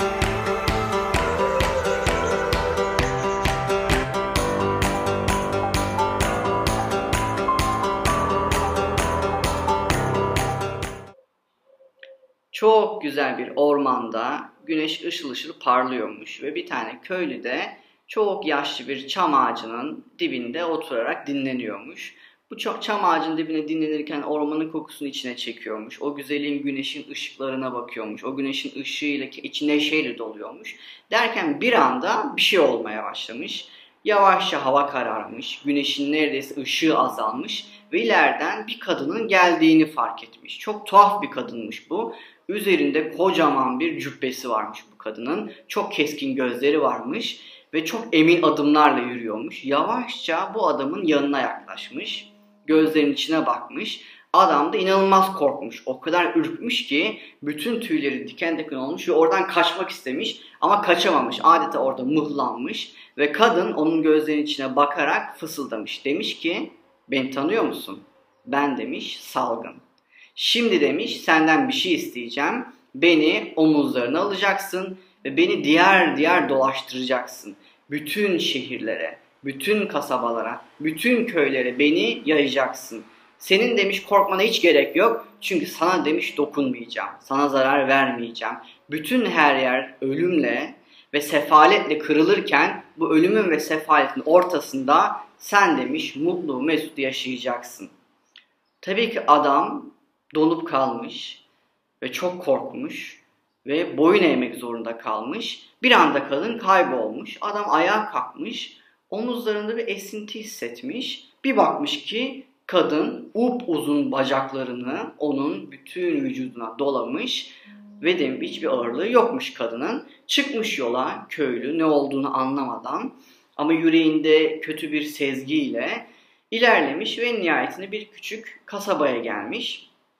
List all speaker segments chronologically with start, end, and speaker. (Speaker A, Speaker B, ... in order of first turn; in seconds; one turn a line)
Speaker A: 12.5-69.8
Speaker A: 70.3-97.9
Speaker A: 98.8-101.4
Speaker A: 102.0-129.9